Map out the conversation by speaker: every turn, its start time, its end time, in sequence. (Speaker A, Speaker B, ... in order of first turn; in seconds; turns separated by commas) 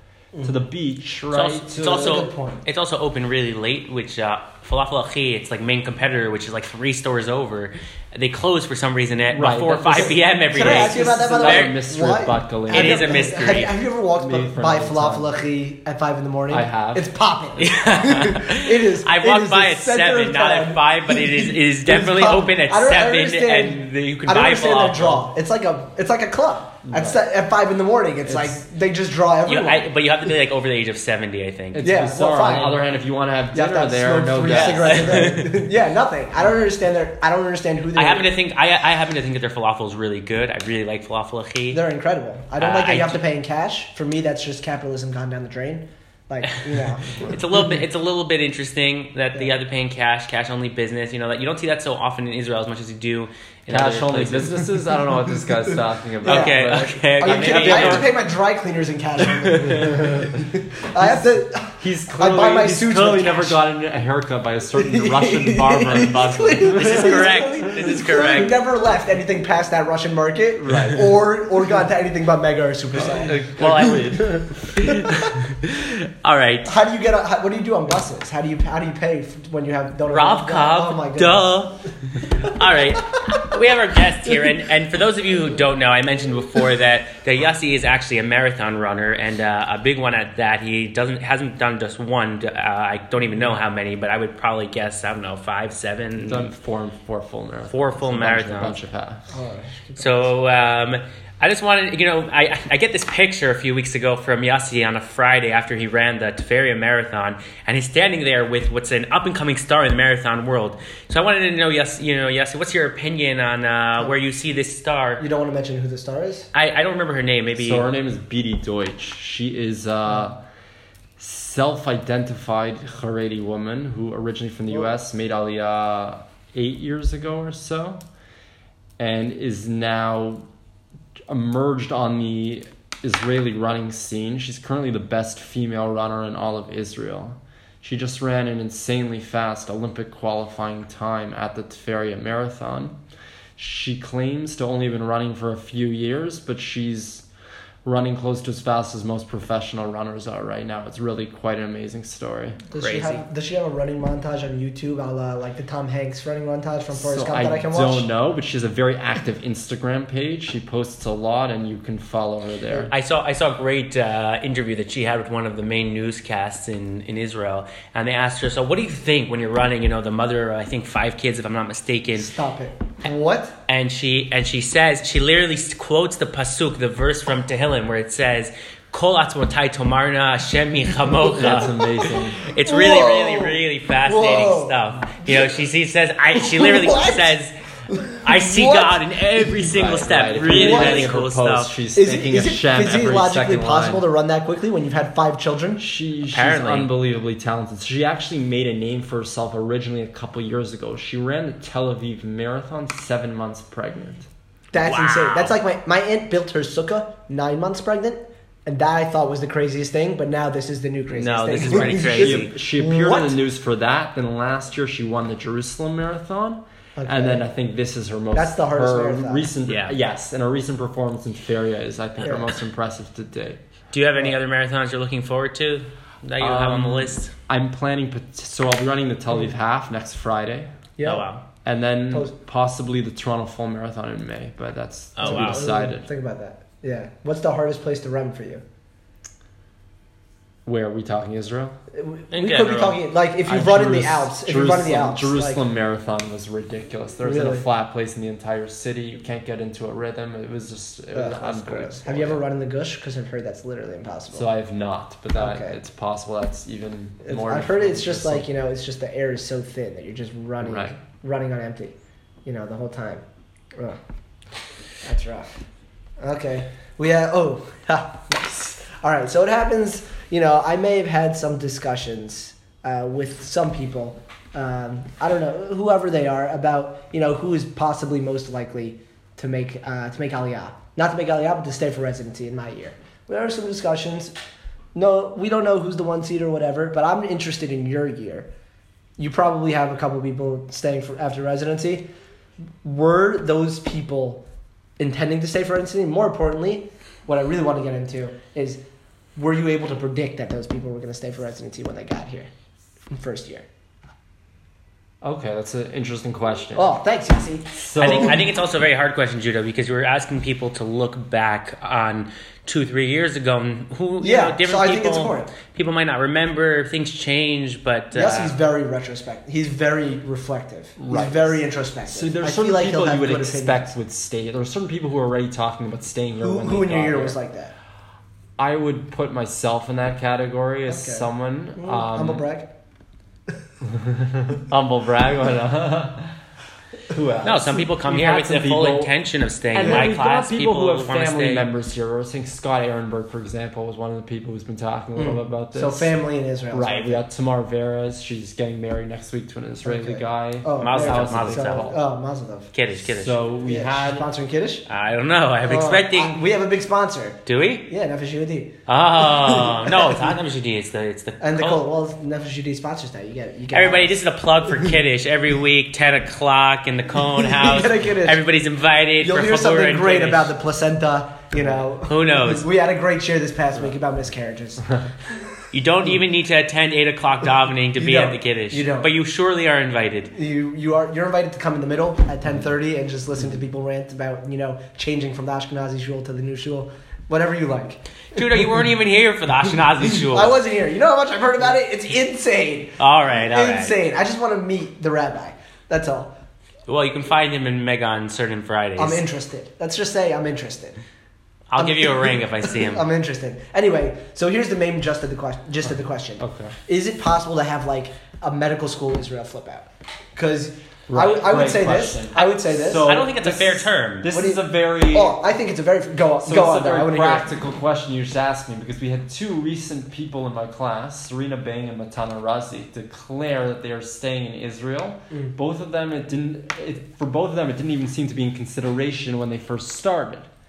Speaker A: 0.4-2.2, Speaker B: 1.3-11.7, Speaker C: 1.8-2.6, Speaker A: 9.3-13.4, Speaker C: 9.9-29.9, Speaker B: 12.7-13.7, Speaker A: 14.2-15.3, Speaker A: 16.5-17.1, Speaker B: 17.6-25.3, Speaker A: 26.9-27.2, Speaker A: 28.3-28.6, Speaker B: 29.5-31.9, Speaker A: 31.7-35.6, Speaker C: 31.8-32.8, Speaker C: 33.5-38.3, Speaker B: 34.5-35.4, Speaker B: 38.0-41.8, Speaker C: 41.7-47.4, Speaker B: 42.6-43.2, Speaker B: 47.2-54.6, Speaker A: 53.7-58.1, Speaker B: 56.2-58.1, Speaker C: 56.2-63.6, Speaker A: 59.7-60.4, Speaker A: 61.0-67.4, Speaker C: 64.8-75.3, Speaker B: 66.7-68.5, Speaker A: 70.6-71.1, Speaker B: 73.2-76.7, Speaker A: 73.3-74.2, Speaker C: 76.7-81.5, Speaker B: 80.1-96.5, Speaker A: 96.2-99.2, Speaker B: 97.7-98.8, Speaker C: 99.3-100.3, Speaker B: 100.0-115.2, Speaker C: 115.2-116.5, Speaker B: 116.5-117.8, Speaker A: 117.6-120.4, Speaker A: 121.2-128.0, Speaker A: 129.0-130.5, Speaker A: 131.3-143.0, Speaker A: 143.6-147.3, Speaker A: 147.8-152.6, Speaker C: 152.7-158.1, Speaker B: 152.8-153.2, Speaker A: 156.9-162.9, Speaker B: 162.9-172.3, Speaker C: 172.2-173.5, Speaker B: 173.7-187.5, Speaker A: 181.3-182.4, Speaker C: 181.6-185.5, Speaker C: 186.3-187.3, Speaker C: 187.9-189.0, Speaker B: 188.1-191.7, Speaker A: 189.6-194.1, Speaker C: 190.5-191.1, Speaker C: 191.9-195.8, Speaker A: 195.8-204.3, Speaker B: 196.3-196.9, Speaker C: 204.7-213.4, Speaker B: 204.8-205.6, Speaker B: 211.2-212.5, Speaker A: 211.6-223.6, Speaker C: 217.0-217.5, Speaker C: 218.3-219.5, Speaker B: 219.7-219.9, Speaker B: 223.9-227.3, Speaker A: 226.4-230.8, Speaker C: 231.0-231.3, Speaker B: 231.0-231.4, Speaker A: 231.7-236.1, Speaker B: 235.2-235.6, Speaker C: 235.2-238.6, Speaker A: 240.7-241.8, Speaker C: 241.9-245.6, Speaker B: 242.3-243.0, Speaker A: 243.5-252.4, Speaker C: 247.2-247.7, Speaker C: 251.1-254.5, Speaker A: 254.3-258.5, Speaker C: 255.4-255.8, Speaker C: 257.2-263.2, Speaker A: 260.6-260.9, Speaker C: 265.0-265.5, Speaker C: 266.2-284.3, Speaker C: 284.9-288.5, Speaker C: 289.2-292.1, Speaker C: 292.8-294.4, Speaker C: 295.0-298.8, Speaker C: 299.4-302.5, Speaker C: 303.1-303.7, Speaker A: 305.2-306.9, Speaker C: 306.8-308.3, Speaker A: 307.7-308.4, Speaker B: 308.0-318.6, Speaker C: 314.2-315.5, Speaker C: 318.1-323.9, Speaker A: 321.0-327.4, Speaker C: 326.4-327.7, Speaker A: 328.6-332.4, Speaker C: 330.9-332.7, Speaker A: 333.8-336.4, Speaker A: 337.1-339.1, Speaker B: 337.4-341.7, Speaker A: 339.7-346.1, Speaker C: 339.8-340.1, Speaker C: 345.2-347.2, Speaker A: 346.7-352.0, Speaker C: 349.8-352.7, Speaker B: 350.8-352.0, Speaker B: 352.7-353.5, Speaker A: 353.1-354.3, Speaker C: 353.6-354.9, Speaker B: 354.9-356.4, Speaker C: 355.7-358.7, Speaker B: 357.5-357.9, Speaker B: 358.9-361.8, Speaker C: 359.4-360.3, Speaker C: 361.4-364.2, Speaker B: 363.7-370.5, Speaker C: 367.4-368.4, Speaker C: 369.2-375.0, Speaker B: 372.0-372.7, Speaker B: 375.7-380.3, Speaker C: 378.0-379.1, Speaker C: 380.3-388.0, Speaker B: 388.3-390.6, Speaker C: 390.1-396.3, Speaker B: 393.0-394.0, Speaker B: 396.9-399.2, Speaker C: 399.0-401.0, Speaker B: 401.7-403.0, Speaker C: 401.8-413.1, Speaker A: 406.4-406.7, Speaker A: 411.1-415.4, Speaker B: 412.4-414.3, Speaker C: 414.3-417.5, Speaker A: 416.4-430.5